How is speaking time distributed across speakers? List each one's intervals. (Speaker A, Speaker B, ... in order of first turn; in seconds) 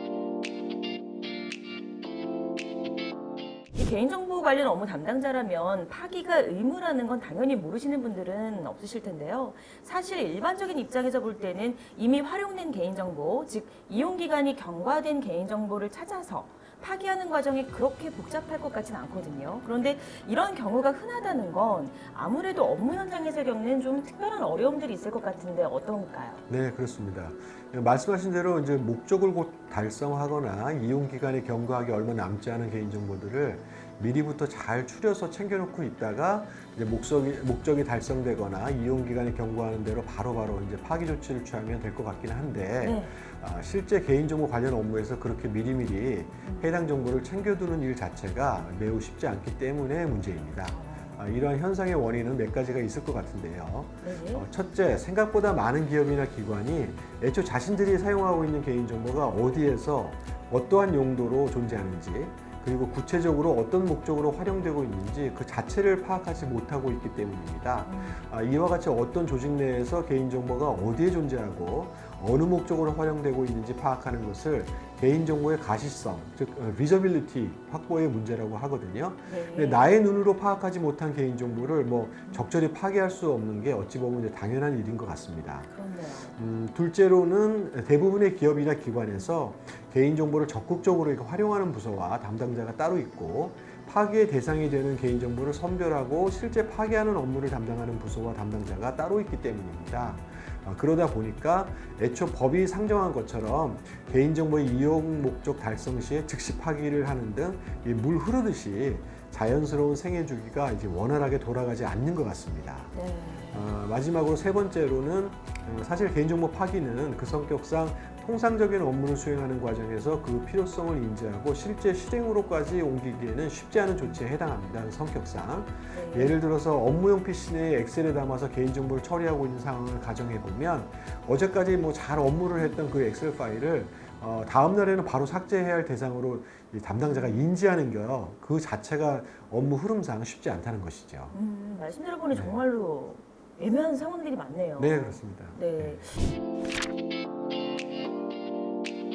Speaker A: 3.8-26.4, 42.8-43.1, 50.7-51.2, 54.0-54.5, 67.8-68.2, 79.3-79.9, 85.7-86.4, 112.9-113.6, 125.9-126.4, 141.3-146.2
Speaker B: 26.5-85.7, 86.3-113.0, 113.5-141.3, 142.3-142.6, 144.8-146.1